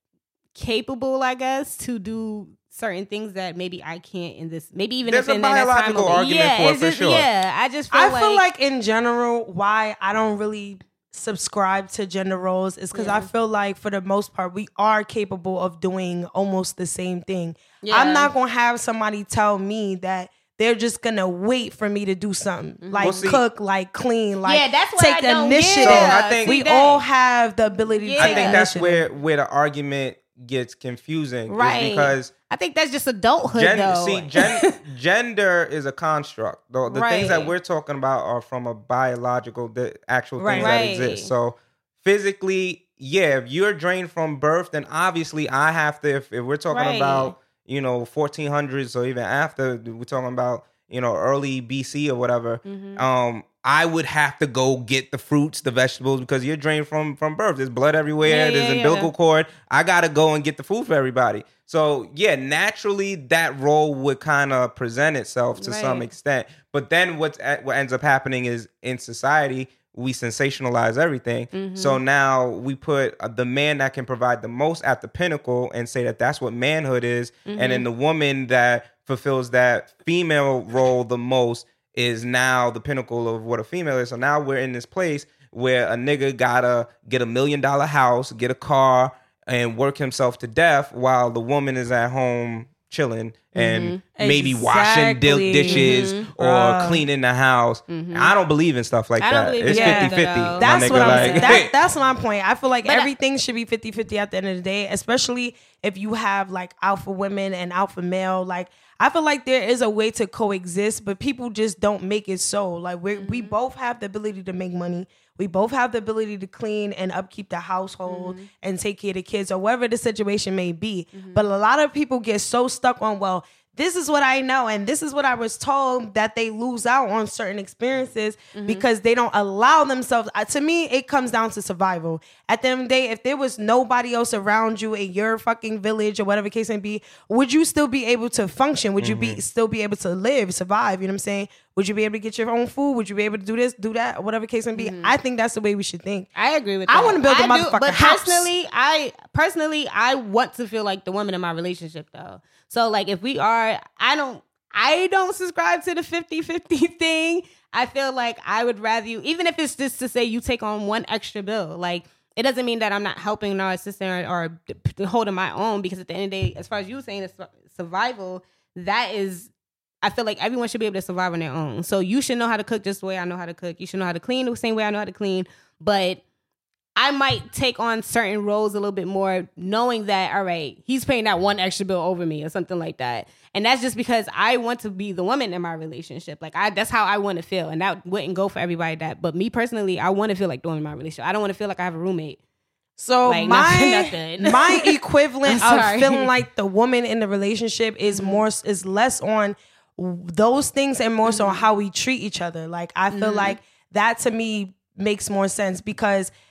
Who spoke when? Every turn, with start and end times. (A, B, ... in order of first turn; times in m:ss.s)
0:00.5-0:08.4 A
0:05.1-0:07.3 B
0:07.9-0:29.0 C
0:12.9-0:13.3 A
0:17.8-0:18.3 A
0:22.8-0:23.3 A
0:23.0-0:23.4 B
0:24.4-0:27.0 A
0:25.8-0:26.6 B
0:27.9-0:28.7 A
0:28.2-0:32.3 B
0:31.5-0:34.8 A
0:33.5-1:41.7 B
0:36.9-0:37.5 A
0:40.4-0:40.8 C
0:40.5-0:41.3 A
0:46.7-0:47.4 A
0:52.6-0:53.0 A
0:58.2-0:59.1 A
1:05.6-1:06.1 A
1:11.5-1:12.0 A
1:17.5-1:17.9 A
1:33.6-1:34.0 A
1:34.2-1:37.0 C
1:35.6-1:36.3 A
1:37.9-1:38.3 A
1:39.2-1:41.7 A
1:39.7-2:26.3 C
1:42.8-1:43.1 A
1:53.1-1:53.6 A
1:58.1-1:58.5 A
2:01.1-2:01.4 A
2:08.5-2:08.8 A
2:19.0-2:19.4 B
2:24.8-2:25.1 A
2:26.4-2:49.5 A
2:26.9-2:28.5 C
2:50.0-2:56.2 A
2:57.0-3:12.4 A
3:13.0-3:26.3 C
3:13.2-3:16.3 A
3:18.1-3:18.4 A
3:21.2-3:21.6 A
3:23.1-3:23.6 A